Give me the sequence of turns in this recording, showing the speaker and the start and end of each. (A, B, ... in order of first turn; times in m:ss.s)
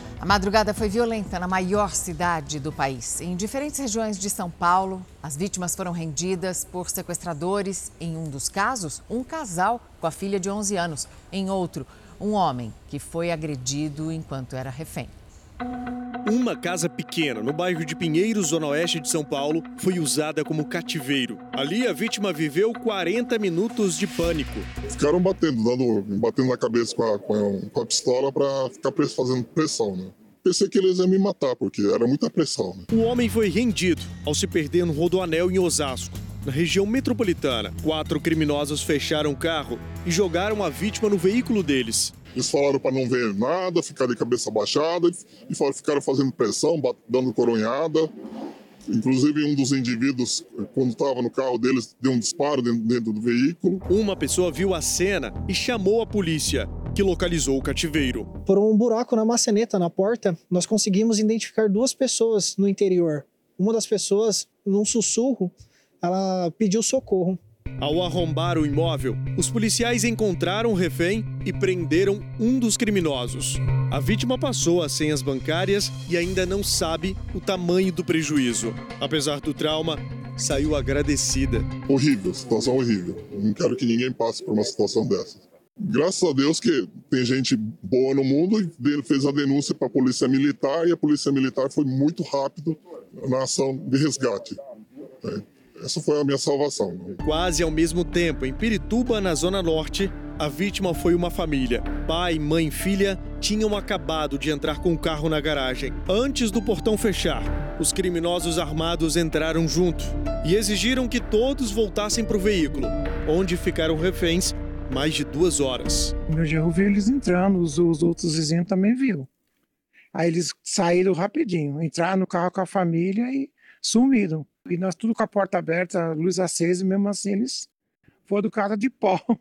0:00.2-0:15.1 A
0:16.2-0:24.7 B
0:24.9-0:32.9 C
0:32.9-0:42.2 B
0:42.3-0:48.1 C
0:48.9-0:53.8 C
0:53.9-0:58.4 B
0:58.4-1:07.4 D
1:07.8-1:21.7 B
1:21.8-1:34.6 C
1:35.2-1:37.2 C
1:37.2-1:56.2 B
1:56.4-1:59.2 E
2:00.2-2:07.6 E
2:08.3-2:09.2 E